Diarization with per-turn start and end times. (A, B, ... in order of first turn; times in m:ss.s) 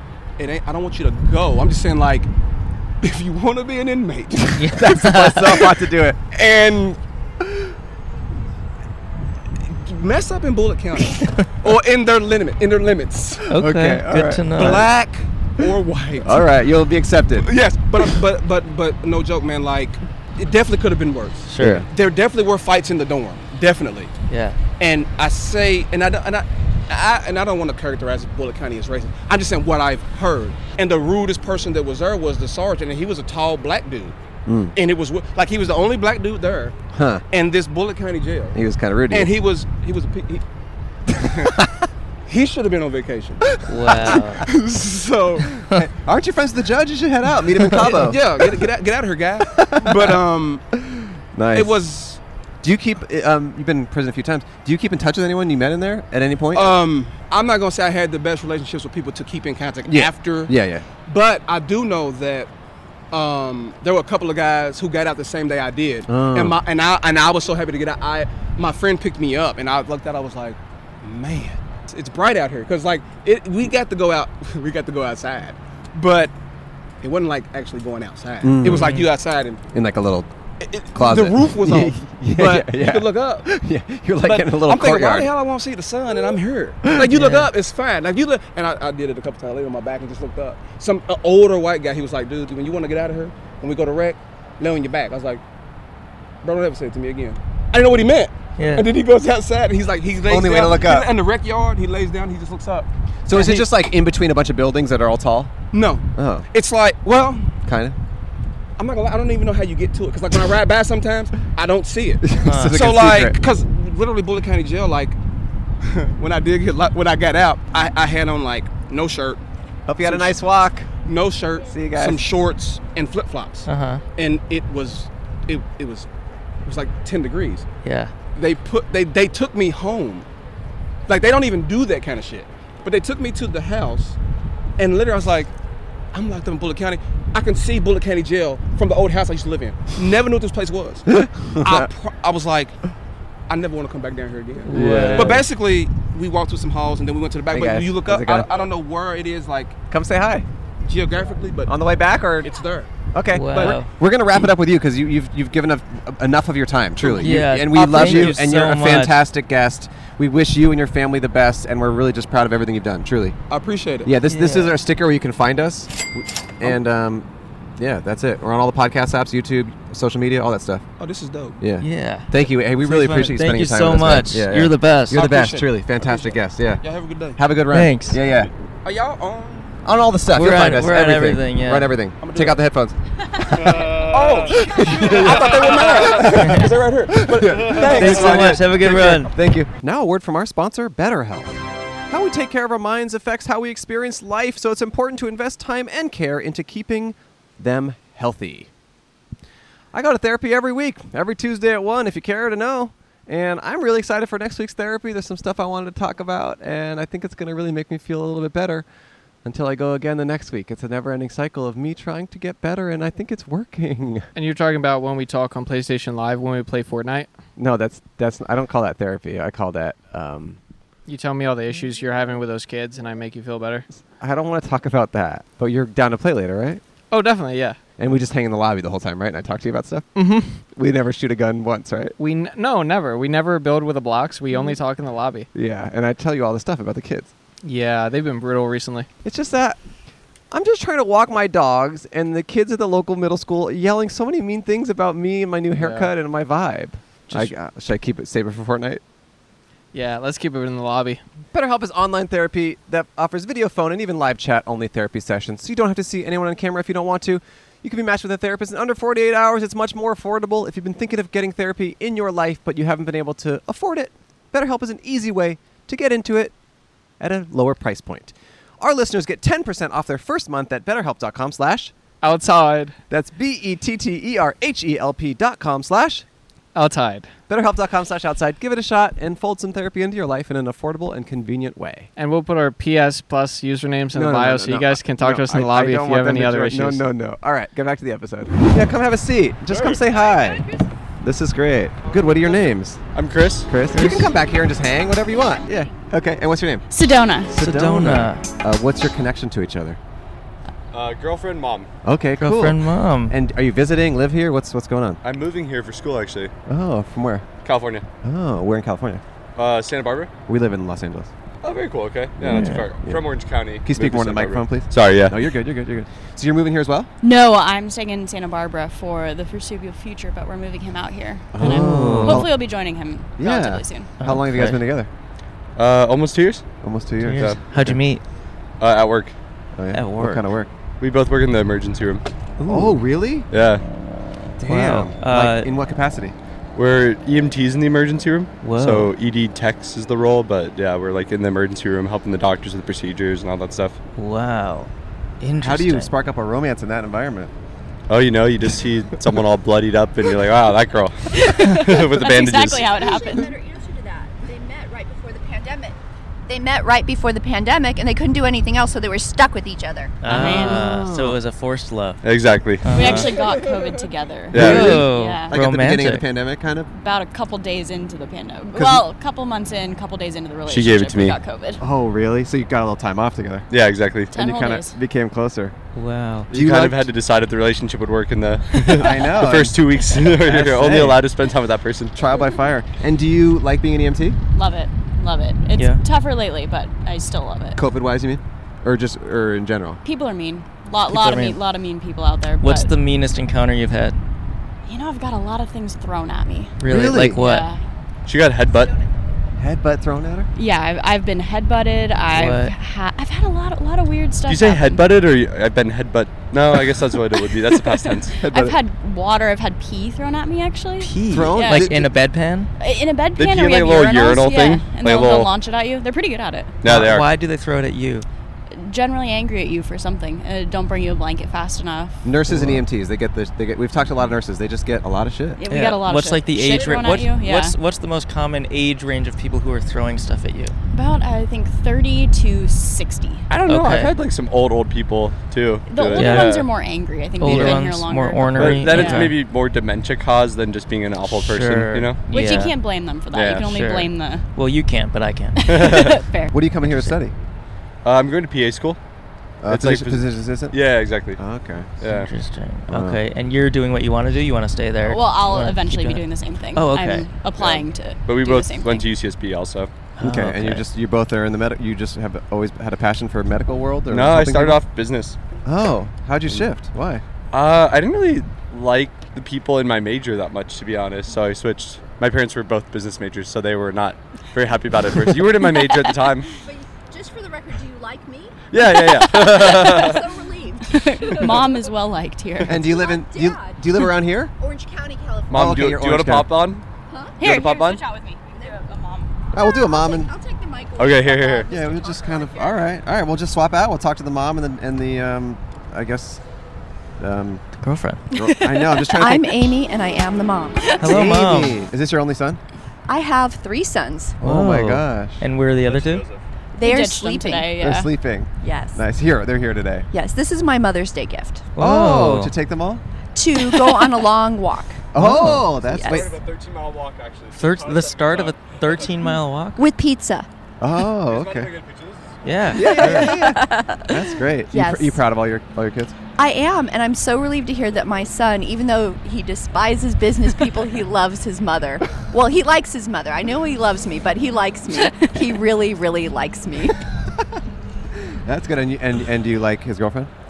0:00.4-0:02.3 A
0:03.0-0:04.6 A
0:04.5-0:05.6 B
0:04.6-0:06.2 C
0:06.3-0:07.0 A
0:09.7-0:13.5 A
0:13.5-0:14.8 B
0:13.6-0:14.9 C
0:14.5-0:16.4 A
0:16.2-0:17.5 C
0:17.4-0:24.1 A
0:21.5-0:21.8 B
0:21.6-0:21.9 C
0:24.3-0:24.6 B
0:24.8-0:34.1 A
0:34.4-0:34.7 C
0:34.7-0:36.8 A
0:36.9-0:37.2 C
0:37.3-0:38.6 A
0:38.5-0:39.3 C
0:39.1-0:40.4 A
0:41.1-0:41.6 A
0:42.3-0:45.7 A
0:43.6-0:44.4 B
0:45.6-0:48.3 C
0:47.8-0:50.6 A
0:49.5-0:50.2 C
0:50.8-0:51.8 C
0:51.5-0:52.2 A
0:52.6-0:56.8 C
0:56.5-1:00.5 A
0:59.8-1:00.8 C
1:01.1-1:02.5 A
1:03.1-1:16.3 A
1:06.1-1:06.6 C
1:17.0-1:19.6 A
1:18.4-1:19.0 C
1:18.6-1:19.1 B
1:19.7-1:20.3 C
1:20.6-1:23.5 A
1:20.9-1:25.3 C
1:24.2-1:35.4 A
1:27.0-1:27.5 B
1:36.4-1:43.7 A
1:38.6-1:38.9 B
1:40.3-1:41.1 C
1:43.2-1:45.5 C
1:45.7-1:47.5 A
1:46.2-1:46.4 C
1:47.6-1:48.0 C
1:48.8-1:55.2 A
1:52.2-1:53.4 C
1:52.4-1:52.8 B
1:55.8-1:59.4 A
1:59.9-2:00.9 C
2:00.0-2:00.4 A
2:01.0-2:06.1 A
2:01.7-2:02.2 C
2:03.7-2:04.0 B
2:06.6-2:07.6 A
2:07.8-2:08.1 B
2:08.3-2:10.3 A
2:11.1-2:14.2 A
2:14.8-2:15.5 A
2:16.1-2:22.8 A
2:21.1-2:21.9 C
2:23.5-2:29.8 A
2:24.7-2:25.4 B
2:24.7-2:25.4 C
2:27.5-2:28.6 C
2:29.9-2:30.5 C
2:30.8-2:31.7 A
2:31.6-2:32.5 C
2:32.4-2:32.9 A
2:33.1-2:43.4 C
2:33.3-2:33.9 B
2:33.5-2:33.8 A
2:37.2-2:39.2 B
2:38.0-2:38.3 A
2:43.5-2:44.1 A
2:44.0-2:47.2 C
2:44.3-2:44.8 B
2:47.8-2:50.8 C
2:51.0-2:51.6 A
2:51.6-2:56.8 C
2:51.8-2:55.2 B
2:55.1-2:57.4 A
2:57.3-2:58.5 C
2:57.7-2:58.2 B
2:58.8-2:59.7 A
2:59.8-3:03.0 C
3:00.3-3:01.9 B
3:02.2-3:02.6 A
3:03.5-3:18.7 C
3:03.6-3:09.1 A
3:03.7-3:04.4 D
3:07.9-3:09.3 B
3:19.9-3:28.8 C
3:29.4-3:34.3 C
3:34.3-3:37.3 E
3:37.6-3:40.6 C
3:41.0-3:43.9 E
3:44.2-3:46.8 C
3:47.1-3:47.8 E
3:48.0-3:50.1 C
3:50.1-3:50.6 E
3:50.7-3:52.2 C
3:52.2-3:55.5 E
3:55.5-3:57.3 C
3:57.6-3:59.1 E
3:59.2-3:59.8 C
4:00.5-4:09.0 C
4:05.8-4:06.1 E
4:09.9-4:11.2 E
4:11.5-4:26.5 C
4:27.2-4:31.9 C
4:32.2-4:33.0 E
4:33.1-4:36.2 C
4:36.7-4:37.3 E
4:37.5-4:42.1 C
4:42.2-4:47.0 E
4:44.1-4:53.0 C
4:49.7-4:50.2 D
4:52.0-4:53.7 D
4:53.6-4:56.8 C
4:54.0-4:54.2 B
4:56.9-4:57.5 F
4:57.5-5:00.0 C
4:57.5-4:58.4 B
5:00.9-5:01.9 D
5:02.0-5:05.2 C
5:02.4-5:03.4 B
5:05.2-5:06.5 D
5:06.7-5:07.5 C
5:07.6-5:08.0 D
5:08.2-5:09.2 C
5:09.6-5:10.3 D
5:10.5-5:11.3 C
5:11.6-5:15.4 D
5:12.4-5:17.1 C
5:12.4-5:12.9 B
5:17.2-5:24.1 F
5:21.5-5:22.6 C
5:21.6-5:22.5 B
5:23.4-5:25.1 C
5:24.2-5:24.8 B
5:25.8-5:26.6 D
5:26.8-5:28.0 C
5:27.2-5:28.2 B
5:27.4-5:27.6 D
5:28.8-5:29.4 D
5:29.7-5:30.7 C
5:29.9-5:30.4 B
5:31.0-5:32.2 D
5:32.6-5:33.5 C
5:33.5-5:33.8 D
5:34.6-5:36.3 C
5:34.6-5:35.7 B
5:36.7-5:44.0 D
5:38.6-5:39.1 B
5:44.2-5:46.1 B
5:45.6-5:47.5 C
5:48.1-5:53.0 D
5:51.3-5:53.5 F
5:53.0-5:56.0 G
5:56.5-6:00.2 G
6:00.2-6:02.2 B
6:00.3-6:00.9 F
6:00.3-6:01.4 C
6:02.2-6:03.3 D
6:02.8-6:03.3 B
6:02.9-6:05.6 F
6:04.5-6:05.0 D
6:04.5-6:06.2 B
6:04.5-6:06.9 C
6:06.9-6:11.8 F
6:08.7-6:09.0 C
6:10.7-6:11.4 D
6:11.8-6:13.7 C
6:13.7-6:14.4 D
6:14.3-6:15.0 F
6:14.3-6:15.8 C
6:15.9-6:16.5 B
6:16.5-6:17.1 C
6:16.5-6:22.2 D
6:18.9-6:21.2 C
6:22.1-6:24.4 C
6:24.5-6:27.8 F
6:25.7-6:26.0 B
6:27.7-6:30.0 C
6:30.0-6:32.9 F
6:31.0-6:31.6 B
6:32.6-6:34.2 B
6:34.8-6:36.8 F
6:36.8-6:37.7 B
6:36.8-6:37.4 C
6:37.3-6:37.8 F
6:38.2-6:38.9 D
6:39.6-6:40.5 C
6:40.5-6:45.0 F
6:42.3-6:42.7 B
6:44.4-6:48.4 D
6:47.9-6:52.1 F
6:48.4-6:48.8 C
6:51.0-6:52.7 B
6:51.3-6:52.1 C
6:52.8-6:56.8 F
6:53.4-6:55.5 D
6:56.8-6:57.3 D
6:56.8-6:58.3 B
6:58.7-7:02.3 F
7:02.2-7:05.6 C
7:02.5-7:02.8 B
7:05.6-7:07.8 F
7:05.7-7:10.8 B
7:10.9-7:13.5 F
7:13.5-7:16.7 D
7:13.7-7:14.1 B
7:15.9-7:19.3 F
7:16.2-7:16.5 B
7:17.4-7:19.4 B
7:17.4-7:17.8 D
7:18.5-7:22.2 D
7:21.3-7:22.8 B
7:22.3-7:24.4 F
7:23.3-7:23.6 D
7:23.6-7:25.7 B
7:25.6-7:26.6 F
7:25.7-7:26.1 D
7:26.5-7:27.3 C
7:26.8-7:27.2 B
7:28.0-7:29.0 D
7:29.6-7:31.9 C
7:29.7-7:31.4 D
7:32.0-7:32.3 D
7:32.0-7:37.3 B
7:32.9-7:33.2 C
7:35.0-7:39.1 F
7:37.6-7:39.9 D
7:40.2-7:40.8 B
7:40.2-7:44.8 C
7:44.1-7:45.4 D
7:45.6-7:47.2 C
7:47.5-7:56.5 D
7:56.6-7:58.6 G
7:58.7-8:00.3 D
7:58.8-8:00.0 F
7:59.5-8:01.6 G
8:00.8-8:03.0 F
8:02.6-8:04.5 C
8:02.8-8:03.8 G
8:04.6-8:05.6 G
8:05.5-8:06.8 D
8:05.5-8:06.6 C
8:07.1-8:07.4 G
8:07.4-8:09.3 F
8:07.4-8:08.0 D
8:09.5-8:10.4 C
8:09.6-8:12.7 G
8:10.9-8:11.9 D
8:11.6-8:16.4 C
8:17.2-8:17.6 C
8:17.8-8:18.2 B
8:18.3-8:19.6 C
8:18.3-8:19.2 F
8:19.2-8:21.0 G
8:21.0-8:21.8 B
8:21.0-8:22.6 C
8:23.1-8:24.4 G
8:24.4-8:25.4 C
8:24.4-8:26.2 B
8:25.7-8:26.4 D
8:26.8-8:27.8 G
8:26.8-8:28.1 F
8:27.8-8:30.1 C
8:28.6-8:29.0 G
8:30.1-8:31.7 G
8:31.8-8:32.5 B
8:31.8-8:33.0 C
8:33.3-8:35.2 G
8:35.1-8:36.4 C
8:35.2-8:35.8 B
8:35.8-8:36.4 G
8:36.0-8:39.2 D
8:37.5-8:39.8 B
8:39.2-8:40.5 G
8:40.8-8:41.8 C
8:41.2-8:42.4 D
8:42.4-8:43.4 B
8:42.7-8:46.2 C
8:42.8-8:45.2 G
8:46.4-8:57.0 G
8:54.9-8:55.5 F
8:58.2-9:00.3 C